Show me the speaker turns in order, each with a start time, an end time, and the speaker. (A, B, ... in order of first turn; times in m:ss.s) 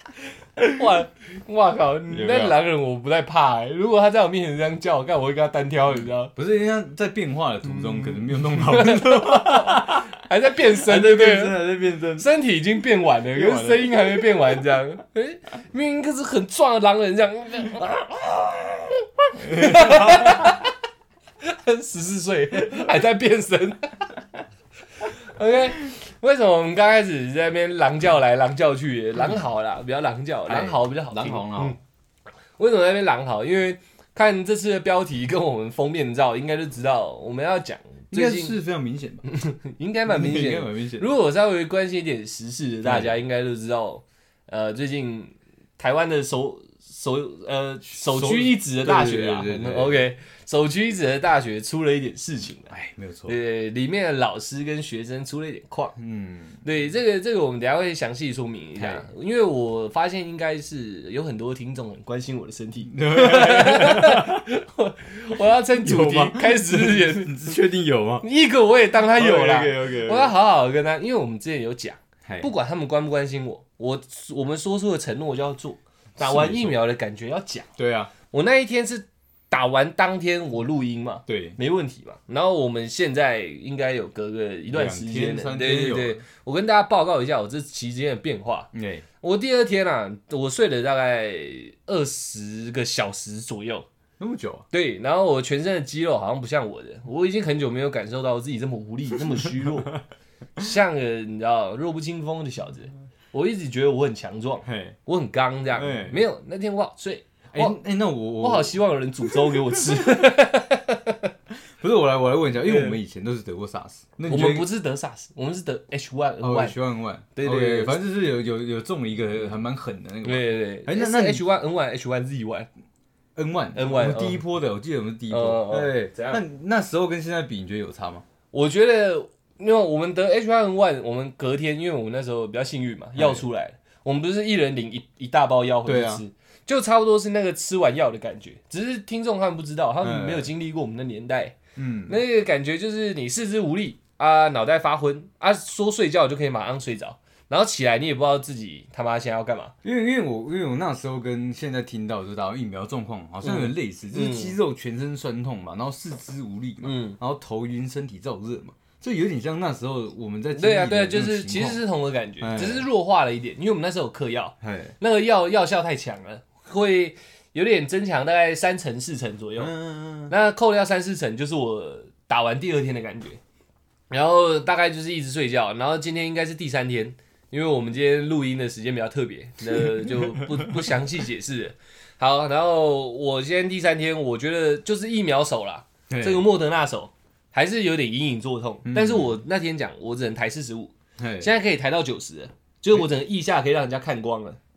0:00.7-0:06.3 A
0:02.1-0:02.6 B
0:06.3-0:10.1 B
0:07.8-0:11.6 A
0:10.8-0:12.3 B
0:12.2-0:20.7 A
0:13.3-0:14.3 B
0:19.4-0:20.5 B
0:21.4-0:24.1 A
0:25.3-0:31.8 A
0:30.5-0:31.8 B
0:32.6-0:38.6 A
0:38.1-0:39.2 B
0:39.3-0:52.7 A
0:40.1-0:41.1 B
0:42.8-0:43.2 B
0:47.9-0:50.0 B
0:52.7-0:53.4 B
0:53.3-0:56.0 A
0:56.0-0:56.6 B
0:56.6-1:07.6 A
0:58.8-0:59.1 B
1:02.9-1:04.5 B
1:05.8-1:08.3 B
1:08.2-1:17.7 A
1:09.1-1:10.3 B
1:12.2-1:12.5 B
1:16.2-1:16.8 B
1:17.8-1:18.1 B
1:18.3-1:28.7 A
1:21.3-1:21.6 B
1:24.7-1:26.2 B
1:28.7-1:29.0 B
1:29.2-1:33.9 A
1:34.2-1:34.7 B
1:34.7-1:40.0 A
1:40.6-1:47.8 A
1:44.6-1:45.0 B
1:45.7-1:46.2 B
1:47.5-1:50.3 B
1:48.4-1:51.3 A
1:51.8-1:54.7 B
1:52.6-1:53.0 A
1:54.3-1:56.8 A
1:56.4-2:01.4 B
1:57.3-1:58.0 A
2:00.2-2:02.7 A
2:03.4-2:08.2 B
2:03.8-2:04.4 A
2:05.3-2:06.4 A
2:08.5-2:21.6 A
2:13.2-2:13.4 B
2:15.8-2:16.2 B
2:20.0-2:20.5 B
2:21.8-2:22.2 B
2:22.1-2:29.8 A
2:29.8-2:41.8 B
2:33.4-2:34.6 A
2:36.8-2:37.2 A
2:40.5-2:49.7 A
2:42.4-2:42.9 B
2:44.6-2:45.0 B
2:49.6-2:50.3 B
2:50.3-2:53.4 A
2:54.1-3:14.6 A
2:59.8-3:00.9 B
3:06.1-3:06.5 B
3:08.8-3:09.3 B
3:11.2-3:11.5 B